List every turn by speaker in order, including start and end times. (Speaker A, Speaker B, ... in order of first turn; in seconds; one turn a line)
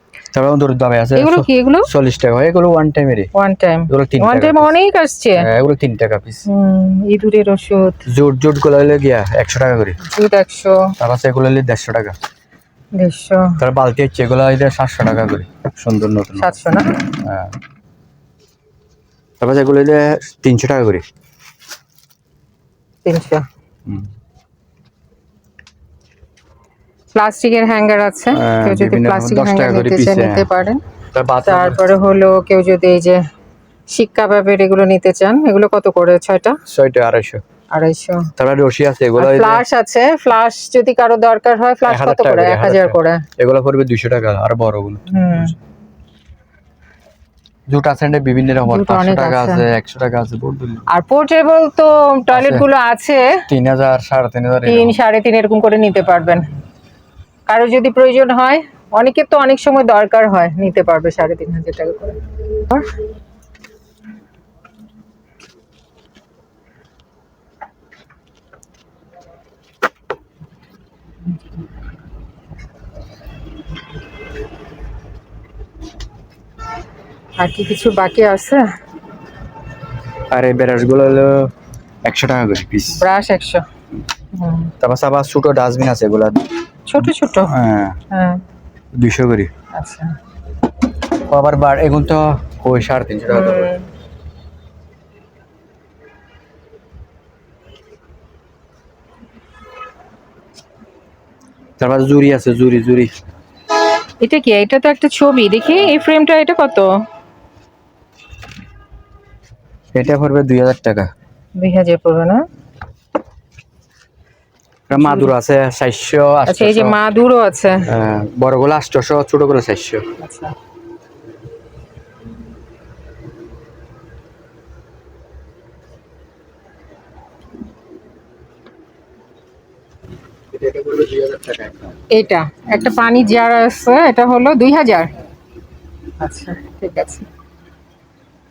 Speaker A: 0.3-3.3
Speaker B: 1.2-1.9
Speaker B: 3.3-5.5
Speaker A: 3.9-4.7
Speaker A: 5.4-6.5
Speaker B: 6.5-8.0
Speaker A: 8.1-10.0
Speaker B: 10.0-10.9
Speaker A: 11.0-12.2
Speaker B: 13.0-13.6
Speaker A: 13.6-17.6
Speaker B: 16.4-16.9
Speaker A: 19.4-21.0
Speaker B: 23.1-23.4
Speaker B: 27.1-30.8
Speaker A: 28.3-30.5
Speaker A: 31.1-31.9
Speaker B: 31.4-33.2
Speaker B: 33.9-36.6
Speaker A: 36.7-37.4
Speaker B: 37.7-38.3
Speaker A: 38.4-39.6
Speaker B: 39.2-43.3
Speaker A: 41.9-45.6
Speaker B: 45.1-45.5
Speaker A: 47.7-50.9
Speaker B: 48.7-49.6
Speaker B: 50.9-53.5
Speaker A: 52.3-52.7
Speaker A: 53.5-55.0
Speaker B: 54.7-56.5
Speaker B: 57.5-62.9
Speaker B: 77.4-78.7
Speaker A: 80.3-81.5
Speaker A: 82.0-83.1
Speaker B: 82.9-83.7
Speaker B: 84.3-84.7
Speaker A: 84.8-86.5
Speaker B: 86.9-87.5
Speaker A: 87.0-88.0
Speaker B: 88.1-88.4
Speaker A: 88.9-89.5
Speaker B: 89.7-90.2
Speaker A: 91.2-93.7
Speaker B: 93.3-93.9
Speaker A: 101.8-103.1
Speaker B: 104.2-107.0
Speaker A: 109.9-111.1
Speaker B: 111.6-112.5
Speaker A: 114.9-117.0
Speaker B: 114.9-115.3
Speaker B: 116.5-117.9
Speaker A: 117.8-120.1
Speaker B: 120.2-120.5
Speaker A: 130.5-132.0
Speaker B: 132.1-135.1
Speaker B: 136.2-137.3